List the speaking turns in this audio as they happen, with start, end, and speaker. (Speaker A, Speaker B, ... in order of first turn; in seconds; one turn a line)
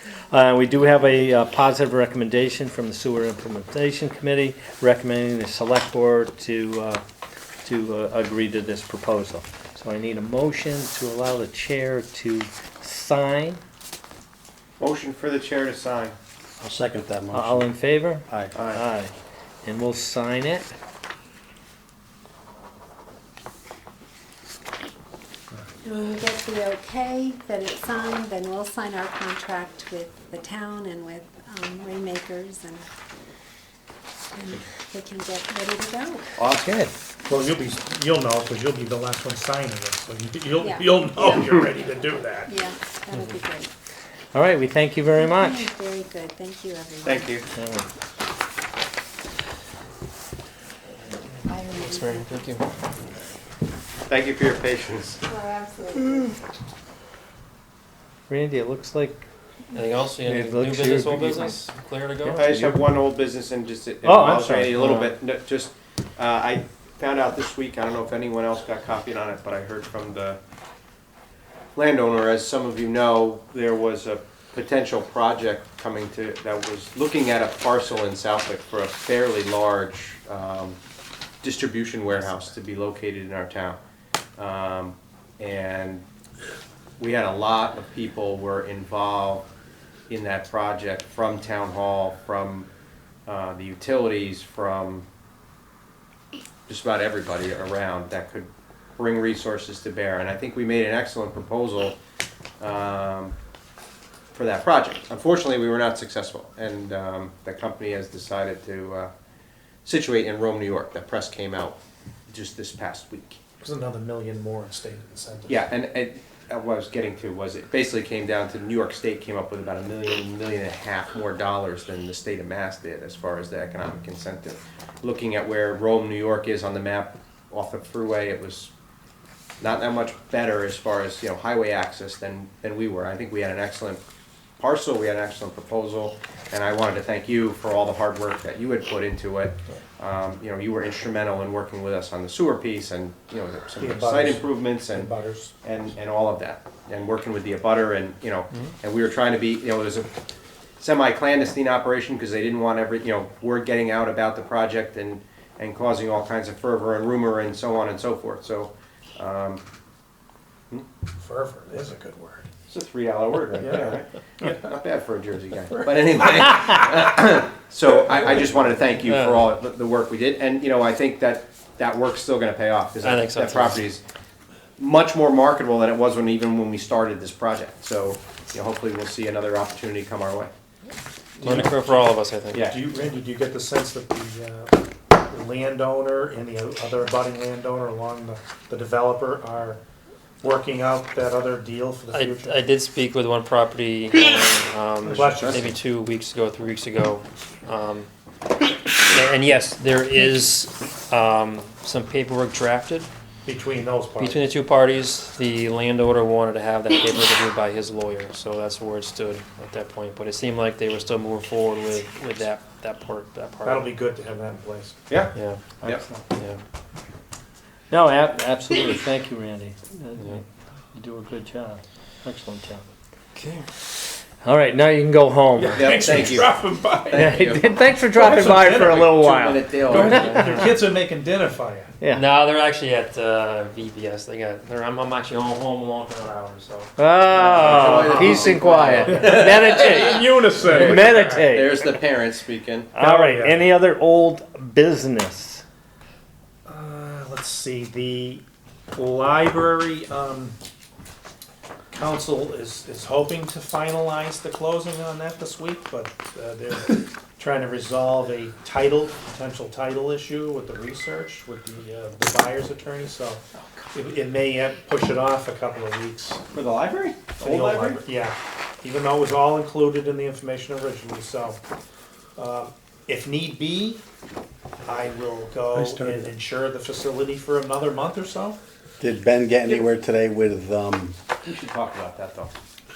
Speaker A: 0.3-7.0
Speaker A: 7.6-13.6
Speaker B: 14.8-16.2
Speaker C: 16.6-18.6
Speaker A: 17.3-19.1
Speaker B: 18.5-18.8
Speaker A: 19.6-20.7
Speaker D: 25.8-32.9
Speaker D: 34.3-36.3
Speaker A: 36.4-36.9
Speaker E: 37.3-42.5
Speaker D: 40.5-41.7
Speaker D: 42.5-43.7
Speaker A: 44.3-45.7
Speaker D: 45.1-47.4
Speaker B: 47.0-47.5
Speaker A: 47.5-47.9
Speaker D: 51.5-52.3
Speaker F: 51.5-52.7
Speaker B: 54.1-55.2
Speaker D: 55.3-56.4
Speaker A: 58.3-59.3
Speaker F: 59.7-62.5
Speaker A: 60.2-61.6
Speaker A: 62.2-62.9
Speaker B: 62.4-70.4
Speaker A: 64.0-65.2
Speaker B: 71.8-80.8
Speaker B: 81.4-83.8
Speaker B: 84.4-86.0
Speaker B: 87.0-89.5
Speaker B: 90.1-92.7
Speaker B: 93.2-95.1
Speaker B: 96.7-102.0
Speaker B: 102.6-103.3
Speaker B: 104.3-109.1
Speaker B: 109.8-111.8
Speaker B: 112.3-113.4
Speaker E: 113.6-115.6
Speaker B: 115.5-128.7
Speaker B: 129.6-134.0
Speaker B: 134.6-145.1
Speaker E: 143.8-145.5
Speaker B: 145.6-150.1
Speaker B: 150.8-159.6
Speaker E: 161.2-162.5
Speaker B: 162.7-174.0
Speaker E: 163.6-164.6
Speaker E: 165.7-166.4
Speaker F: 169.0-169.5
Speaker F: 173.0-173.8
Speaker B: 174.8-180.5
Speaker E: 181.4-182.1
Speaker F: 181.4-182.7
Speaker B: 182.5-182.8
Speaker E: 182.7-189.8
Speaker E: 190.4-192.5
Speaker F: 192.1-198.1
Speaker B: 195.0-195.8
Speaker E: 195.1-195.4
Speaker F: 199.1-203.1
Speaker E: 203.5-204.4
Speaker F: 204.2-213.9
Speaker E: 213.7-215.0
Speaker B: 215.1-216.0
Speaker F: 215.3-215.7
Speaker A: 215.8-216.2
Speaker F: 216.3-216.6
Speaker A: 217.9-222.9
Speaker F: 223.4-223.7
Speaker A: 224.4-226.3
Speaker E: 225.6-227.4
Speaker B: 225.8-226.5
Speaker B: 227.1-227.7
Speaker A: 227.1-230.6
Speaker E: 228.1-229.0
Speaker B: 228.8-230.6
Speaker E: 229.9-231.9
Speaker F: 230.4-230.7
Speaker F: 232.1-239.0
Speaker A: 237.0-241.9
Speaker B: 237.6-242.9
Speaker E: 239.1-241.4
Speaker A: 242.9-245.6
Speaker E: 243.0-243.6
Speaker E: 246.7-248.4
Speaker E: 248.9-250.6
Speaker E: 251.9-263.4
Speaker E: 263.9-266.4
Speaker B: 266.5-268.0
Speaker E: 267.4-271.6
Speaker E: 272.4-274.0
Speaker E: 274.8-278.6
Speaker C: 275.8-276.3
Speaker C: 279.0-281.2
Speaker B: 281.4-282.5